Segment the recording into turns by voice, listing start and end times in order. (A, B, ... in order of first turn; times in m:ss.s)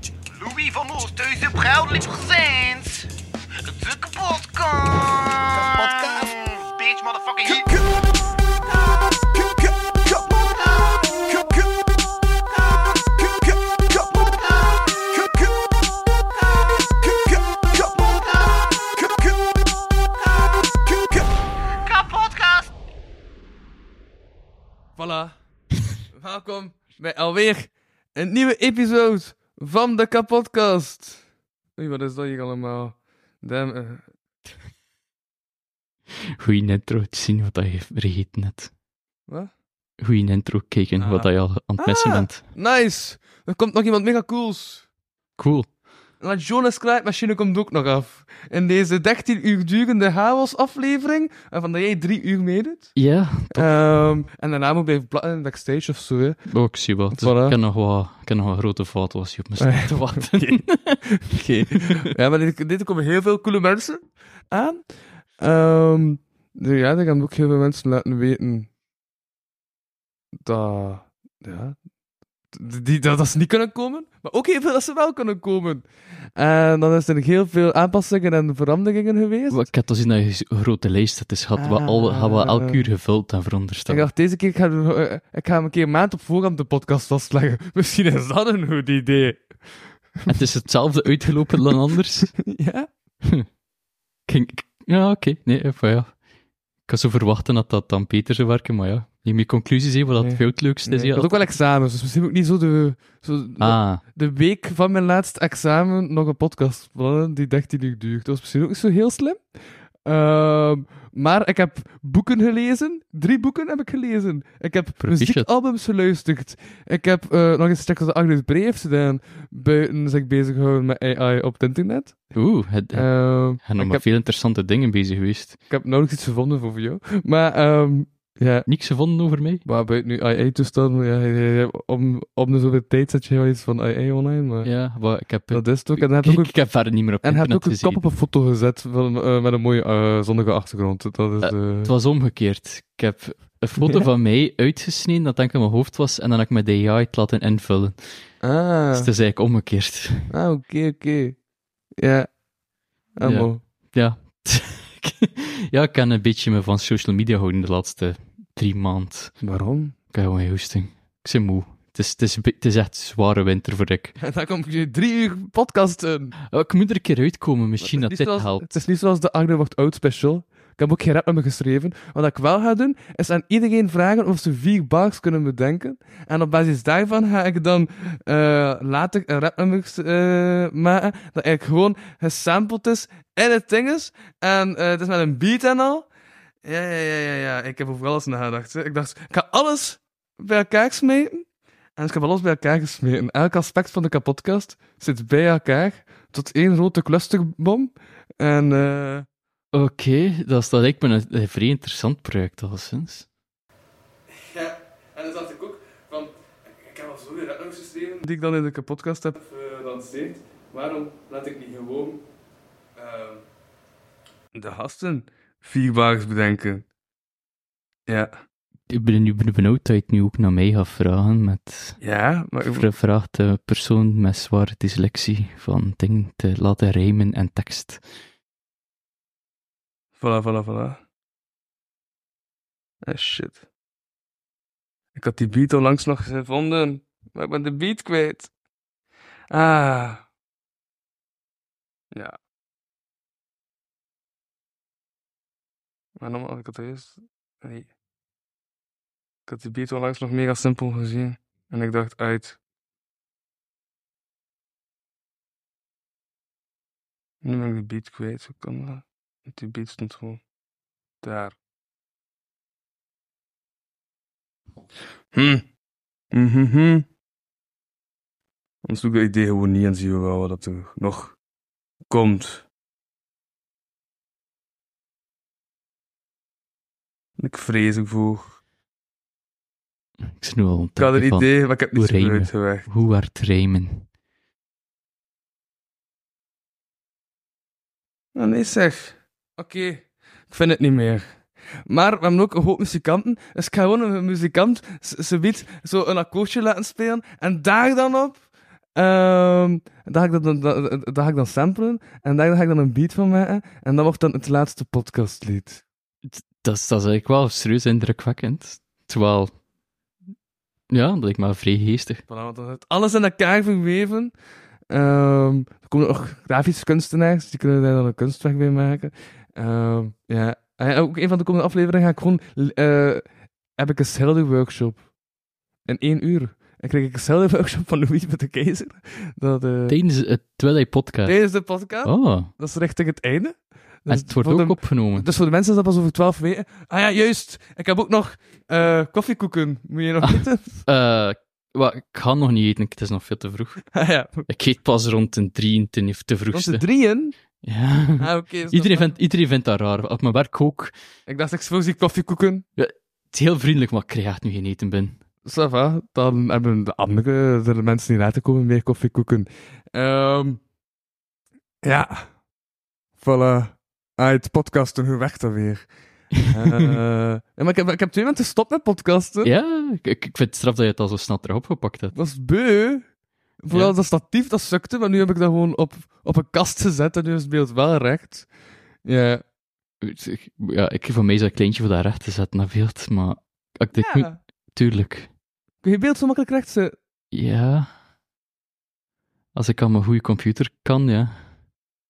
0:00.3-0:03.1 A
0:03.6-0:07.7 A
0:10.3-0:11.0 A
0:21.8-0:22.7 A
0:25.0-0:25.4 B
0:26.1-0:31.2 B
0:31.8-0:34.0 B
0:36.4-0:38.7 C
0:40.0-0:42.4 C
0:41.0-0:44.8 B
0:45.4-0:45.7 C
0:46.2-0:53.0 B
0:53.0-0:53.7 C
0:53.5-0:57.6 B
0:56.5-1:02.1 C
0:59.6-1:08.7 B
1:10.4-1:11.8 B
1:12.5-1:19.7 B
1:19.5-1:24.1 C
1:21.6-1:22.8 B
1:23.9-1:29.6 B
1:30.3-1:32.4 C
1:32.4-1:32.9 B
1:34.3-1:36.2 C
1:36.9-1:41.4 C
1:40.2-1:49.5 B
1:43.6-1:44.0 C
1:50.0-2:02.3 B
1:55.0-1:55.5 C
2:02.3-2:05.6 C
2:02.9-2:04.0 B
2:05.7-2:08.7 B
2:08.7-2:09.6 C
2:09.6-2:14.8 B
2:14.6-2:18.0 C
2:15.5-2:21.9 B
2:21.4-2:28.0 C
2:23.8-2:24.1 B
2:28.4-2:29.1 B
2:28.9-2:30.3 C
2:30.3-2:31.4 B
2:32.0-2:32.3 B
2:33.2-2:33.6 B
2:33.2-2:39.4 C
2:39.4-2:40.0 B
2:40.1-2:44.2 C
2:44.2-2:46.3 B
2:46.5-2:48.8 C
2:47.8-3:06.1 B
3:06.6-3:19.3 B
3:19.7-3:23.3 C
3:24.3-3:32.2 B
3:33.0-3:33.4 B
3:34.5-3:36.8 B
3:38.1-3:38.3 B
3:38.9-3:42.0 C
3:42.0-3:42.8 B
3:42.6-3:48.0 C
3:50.2-3:51.0 B
3:53.0-3:53.6 B
3:55.2-3:58.5 B
3:59.5-4:00.2 B
4:02.1-4:02.4 B
4:06.2-4:07.9 B
4:09.5-4:12.6 B
4:17.4-4:20.4 B
4:21.2-4:21.6 B
4:25.3-4:25.6 B
4:26.3-4:27.1 B
4:28.8-4:31.4 B
4:32.1-4:32.6 B
4:37.4-4:38.6 B
4:40.3-4:44.1 C
4:41.0-4:42.9 B
4:48.4-4:51.3 B
4:51.9-4:58.4 B
4:59.0-5:05.8 B
5:06.3-5:09.5 C
5:10.9-5:12.2 C
5:12.3-5:14.3 B
5:14.9-5:25.0 B
5:25.8-5:30.0 B
5:29.9-5:31.4 C
5:31.3-5:40.7 B
5:32.0-5:32.5 C
5:34.1-5:35.3 C
5:40.2-5:43.9 C
5:43.9-5:44.5 B
5:44.5-5:46.8 C
5:46.5-5:47.4 B
5:47.6-5:50.9 C
5:48.2-5:49.2 B
5:51.3-5:52.6 B
5:52.8-5:55.2 C
5:55.4-6:00.6 B
6:01.8-6:02.3 B
6:03.2-6:05.9 B
6:06.4-6:09.5 B
6:09.4-6:12.2 C
6:12.1-6:13.1 B
6:13.6-6:18.5 B
6:13.7-6:14.0 C
6:19.0-6:19.4 B
6:20.0-6:25.3 C
6:23.9-6:24.4 B
6:25.8-6:27.0 B
6:27.3-6:27.9 C
6:29.5-6:31.4 C